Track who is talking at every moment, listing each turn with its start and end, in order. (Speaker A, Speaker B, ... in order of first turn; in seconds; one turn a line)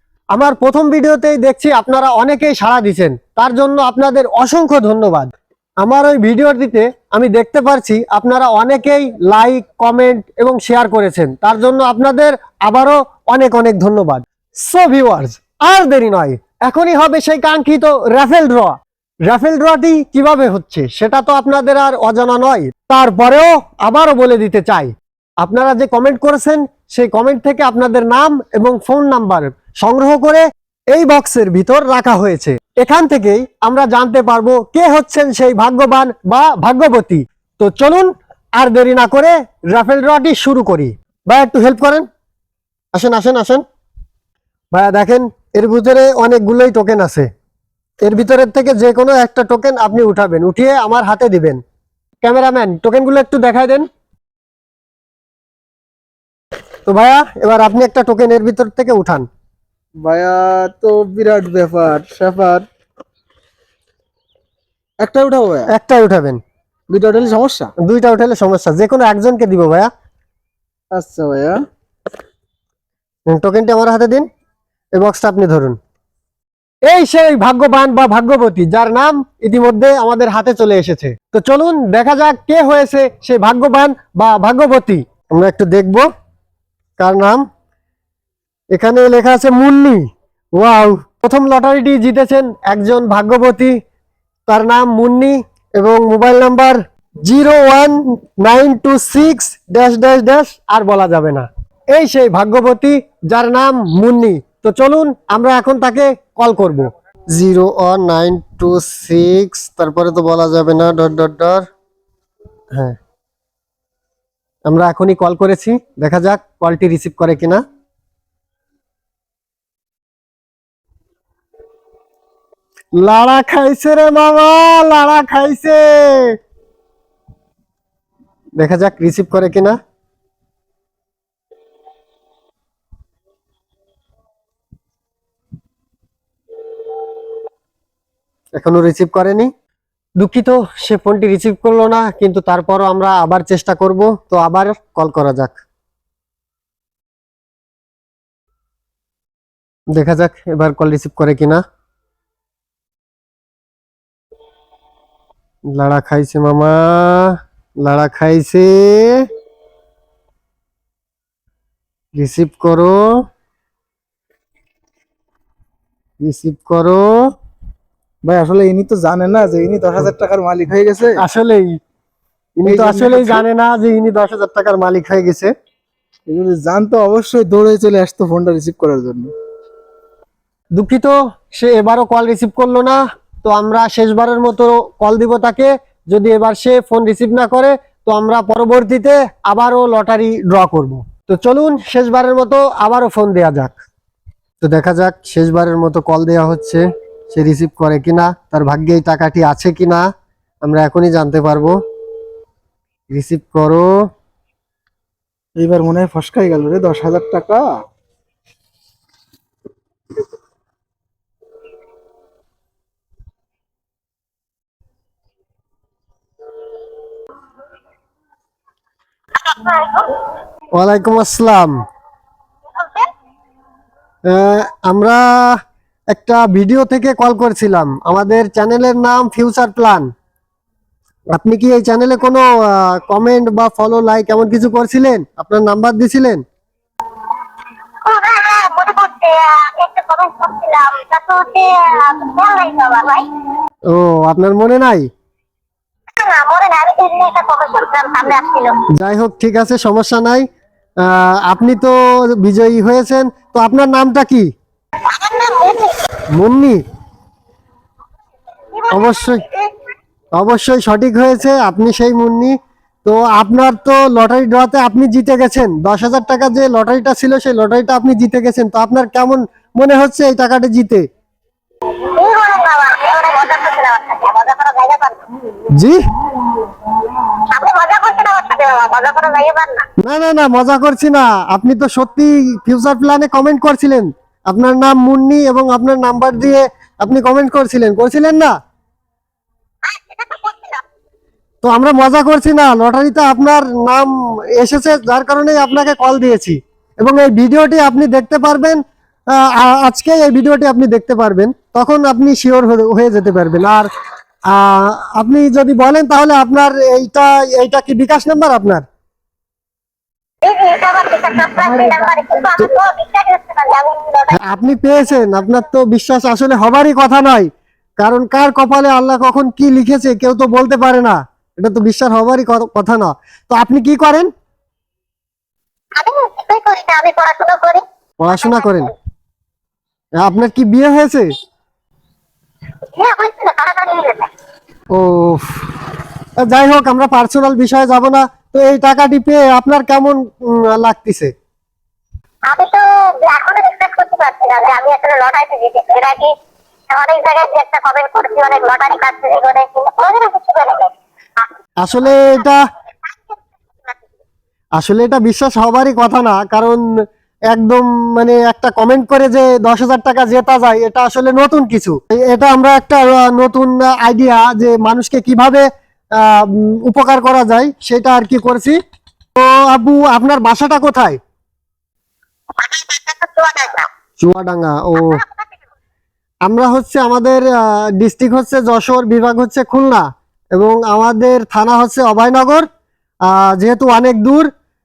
Speaker A: 0.3-5.3
Speaker A: 5.8-18.7
Speaker A: 19.3-42.0
Speaker A: 42.9-43.6
Speaker A: 44.7-47.3
Speaker A: 48.0-51.6
Speaker A: 52.2-53.9
Speaker A: 56.9-59.3
Speaker B: 60.0-62.6
Speaker B: 65.0-65.7
Speaker A: 65.7-66.4
Speaker B: 66.9-67.7
Speaker A: 67.8-69.9
Speaker B: 70.9-71.6
Speaker A: 73.3-74.2
Speaker A: 75.0-75.8
Speaker A: 76.9-86.0
Speaker A: 87.0-87.4
Speaker A: 88.7-90.0
Speaker A: 90.6-93.8
Speaker A: 94.5-111.6
Speaker A: 114.7-117.6
Speaker A: 123.0-126.4
Speaker A: 128.6-129.8
Speaker A: 138.6-139.5
Speaker A: 140.2-145.6
Speaker A: 149.9-151.6
Speaker A: 155.7-159.2
Speaker A: 162.1-163.2
Speaker A: 166.2-167.1
Speaker B: 168.2-171.2
Speaker A: 171.2-171.7
Speaker A: 172.6-175.5
Speaker B: 172.6-173.4
Speaker B: 176.3-179.3
Speaker A: 180.8-193.8
Speaker A: 194.6-200.1
Speaker A: 200.6-201.7
Speaker A: 203.1-203.9
Speaker B: 205.6-207.7
Speaker C: 219.4-220.2
Speaker A: 220.7-221.8
Speaker C: 222.7-223.1
Speaker A: 224.3-225.6
Speaker A: 226.1-230.1
Speaker A: 231.3-236.4
Speaker C: 238.0-243.3
Speaker A: 243.9-245.1
Speaker C: 246.2-248.8
Speaker A: 249.0-250.4
Speaker A: 251.0-254.5
Speaker C: 255.1-256.0
Speaker A: 256.3-256.8
Speaker C: 258.7-259.7
Speaker A: 258.9-259.4
Speaker A: 260.3-262.5
Speaker A: 263.0-271.0
Speaker C: 272.1-275.2
Speaker A: 275.7-276.0
Speaker C: 277.3-279.9
Speaker A: 280.0-288.5
Speaker C: 289.8-290.8
Speaker A: 291.6-298.8
Speaker A: 299.4-303.9
Speaker A: 304.5-308.8
Speaker C: 310.4-315.3
Speaker A: 314.3-324.3
Speaker C: 325.9-328.9
Speaker A: 328.2-328.9
Speaker A: 330.2-331.3
Speaker C: 332.9-334.3
Speaker A: 334.9-335.6
Speaker A: 336.4-341.3
Speaker C: 342.5-346.3
Speaker C: 346.9-351.5
Speaker A: 351.8-352.6
Speaker C: 352.0-352.5
Speaker C: 353.1-354.0
Speaker A: 354.8-356.8
Speaker A: 357.5-365.6
Speaker A: 366.2-368.8
Speaker A: 369.4-371.2
Speaker C: 372.6-373.9
Speaker A: 374.2-375.2
Speaker C: 374.9-375.5
Speaker A: 376.4-382.7
Speaker A: 383.3-384.5